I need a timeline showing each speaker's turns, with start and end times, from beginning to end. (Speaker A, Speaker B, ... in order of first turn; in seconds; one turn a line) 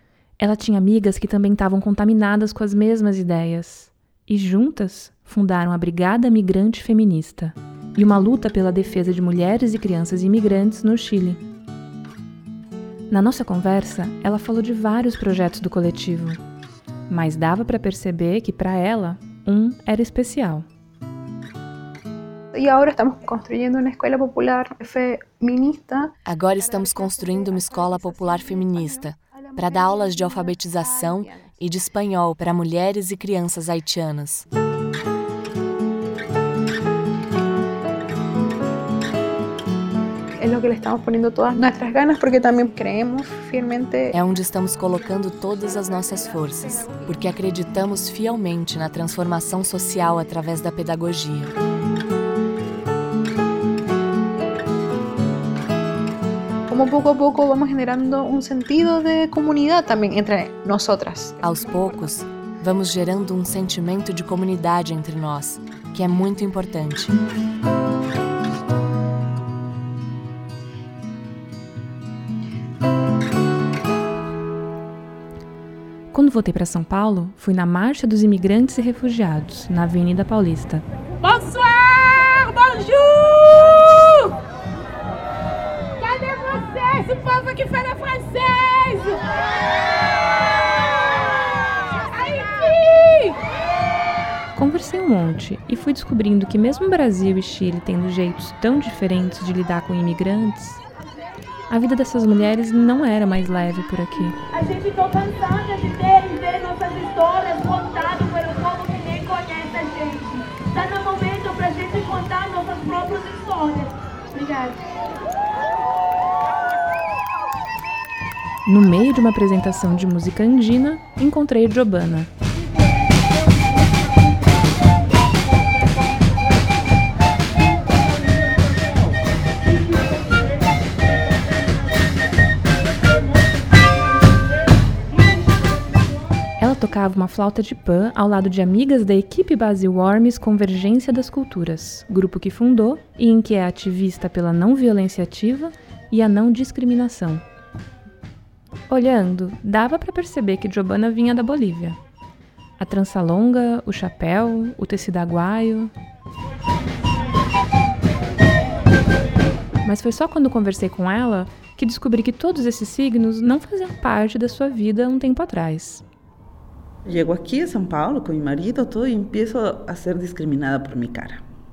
Speaker A: 0.4-11.4
Speaker A: 13.1-16.4
Speaker A: 17.1-20.6
Speaker B: 22.5-31.6
Speaker C: 26.2-34.4
Speaker B: 40.4-44.1
Speaker C: 44.1-51.5
Speaker B: 45.0-47.4
Speaker B: 56.7-62.1
Speaker C: 61.4-67.2
Speaker A: 76.1-80.8
Speaker D: 81.2-84.3
Speaker D: 86.0-89.3
Speaker D: 91.0-93.4
Speaker A: 94.5-100.8
Speaker A: 101.7-104.4
Speaker E: 104.5-114.8
Speaker A: 118.7-122.3
Speaker E: 129.8-130.1
Speaker A: 136.6-147.4
Speaker A: 148.9-152.0
Speaker A: 152.8-155.9
Speaker A: 159.8-166.0
Speaker F: 167.1-171.4